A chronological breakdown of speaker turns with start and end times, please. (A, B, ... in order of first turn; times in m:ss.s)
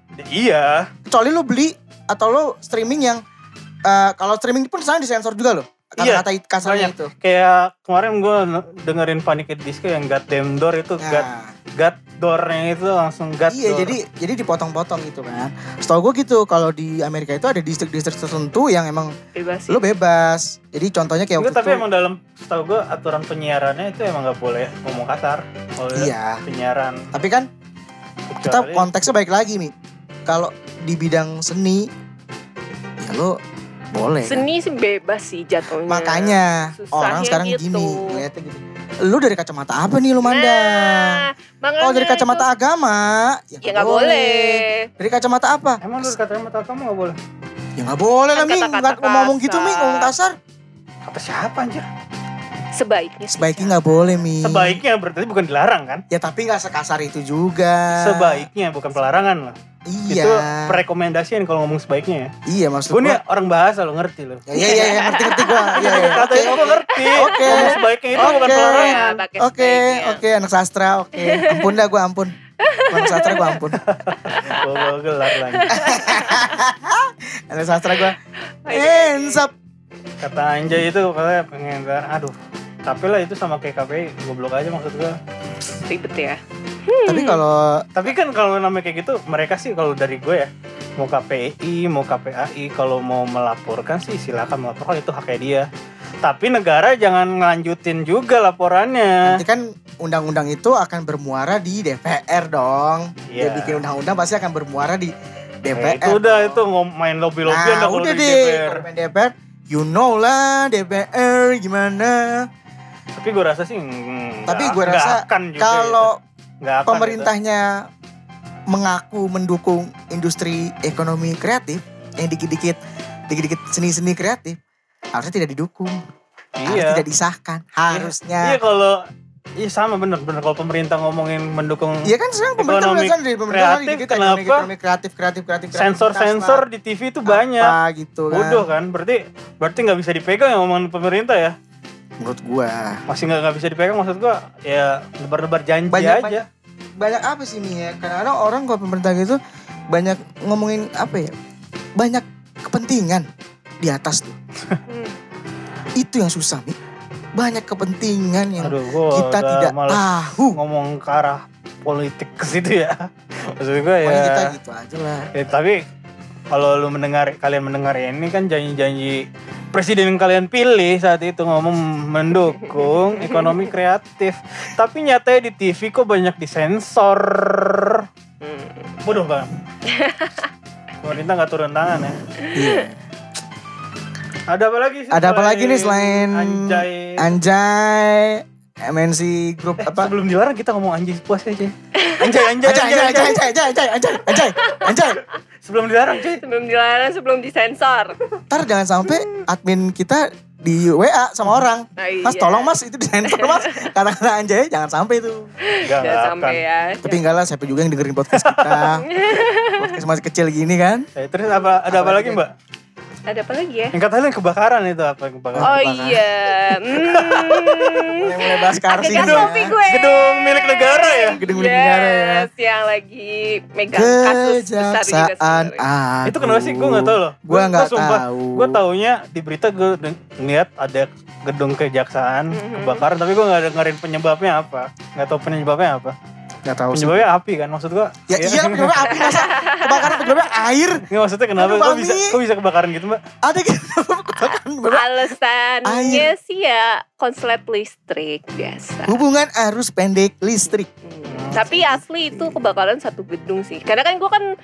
0:00.2-0:00.9 A
0:01.1-0:03.2 B
0:03.9-0:07.1 B
0:06.0-0:11.3 A
0:11.0-0:11.5 B
0:11.8-0:14.0 A
0:13.5-0:19.1 B
0:19.4-0:19.9 C
0:19.7-0:21.8 B
0:21.4-0:27.1 A
0:26.0-0:26.4 B
0:27.1-0:27.5 B
0:28.3-0:28.9 A
0:28.4-0:29.7 B
0:30.3-0:31.9 B
0:33.0-0:33.4 B
0:33.9-0:34.4 B
0:34.2-0:38.2 C
0:35.9-0:41.2 B
0:40.3-0:42.5 C
0:41.8-0:46.1 B
0:43.6-0:44.9 C
0:45.8-0:47.2 A
0:47.8-0:50.4 B
0:48.4-0:50.1 C
0:51.1-0:51.9 A
0:52.8-0:54.2 C
0:53.3-0:54.8 B
0:54.4-0:56.0 A
0:56.1-0:58.5 B
0:58.0-0:59.6 A
0:59.9-1:00.8 B
1:00.1-1:02.3 A
1:02.5-1:03.2 B
1:02.9-1:04.4 A
1:04.5-1:12.3 B
1:04.6-1:10.2 C
1:05.8-1:09.2 A
1:11.2-1:11.8 C
1:12.6-1:13.6 C
1:12.9-1:13.8 B
1:13.8-1:15.8 A
1:14.1-1:14.6 C
1:15.5-1:16.5 C
1:15.7-1:18.2 B
1:18.6-1:19.5 C
1:18.7-1:19.5 B
1:20.2-1:22.4 A
1:22.9-1:25.2 A
1:25.9-1:27.4 C
1:27.1-1:27.8 B
1:28.0-1:35.7 A
1:36.2-1:39.4 A
1:39.2-1:46.6 B
1:43.3-1:43.8 A
1:45.8-1:48.8 A
1:47.5-1:52.5 B
1:53.2-1:56.1 A
1:54.5-1:56.2 B
1:56.6-1:57.3 A
1:56.9-1:57.8 B
1:58.7-2:02.8 B
2:03.3-2:04.6 B
2:05.1-2:06.0 B
2:06.6-2:07.0 A
2:06.7-2:08.6 B
2:07.9-2:09.0 A
2:09.6-2:14.7 A
2:12.0-2:16.6 B
2:15.8-2:17.7 A
2:17.3-2:18.6 B
2:18.3-2:21.6 A
2:22.2-2:23.0 B
2:23.1-2:26.5 A
2:25.9-2:26.4 B
2:27.0-2:29.4 B
2:29.9-2:31.3 B
2:32.0-2:33.2 B
2:33.8-2:34.4 B
2:34.9-2:35.2 C
2:36.0-2:36.8 B
2:37.4-2:40.6 B
2:38.6-2:44.5 A
2:44.0-2:45.3 B
2:45.4-2:45.8 A
2:46.5-2:49.2 A
2:49.7-2:58.1 A
2:52.6-2:53.6 C
2:58.4-2:58.9 C
2:59.0-2:59.5 A
2:59.9-3:00.5 C
3:01.0-3:02.2 A
3:02.4-3:02.8 C
3:02.6-3:03.0 B
3:04.5-3:07.4 A
3:05.1-3:10.1 B
3:09.8-3:13.4 A
3:12.0-3:12.5 C
3:12.6-3:15.2 B
3:14.3-3:15.2 C
3:15.6-3:16.4 A
3:16.4-3:18.2 C
3:18.5-3:25.4 B
3:22.0-3:22.8 C
3:23.3-3:23.8 C
3:25.7-3:27.2 C
3:25.8-3:26.6 A
3:27.0-3:29.1 B
3:28.4-3:28.9 A
3:29.0-3:29.8 C
3:29.7-3:31.1 B
3:31.2-3:32.5 A
3:31.9-3:32.4 B
3:33.3-3:34.0 C
3:33.9-3:35.8 A
3:35.6-3:36.2 B
3:35.6-3:38.3 C
3:36.9-3:38.1 A
3:38.2-3:39.7 B
3:39.0-3:45.8 C
3:39.0-3:41.4 A
3:41.0-3:42.5 B
3:43.9-3:48.8 B
3:46.3-3:56.1 A
3:52.5-3:53.0 C
3:56.6-3:57.2 B
3:56.9-3:59.2 A
3:58.3-4:01.0 B
3:59.1-4:00.4 C
4:01.1-4:03.2 A
4:01.6-4:02.4 B
4:03.4-4:05.3 B
4:04.4-4:09.2 C
4:05.9-4:06.3 B
4:09.1-4:10.9 B
4:11.0-4:14.5 C
4:11.3-4:11.6 A
4:11.5-4:12.6 B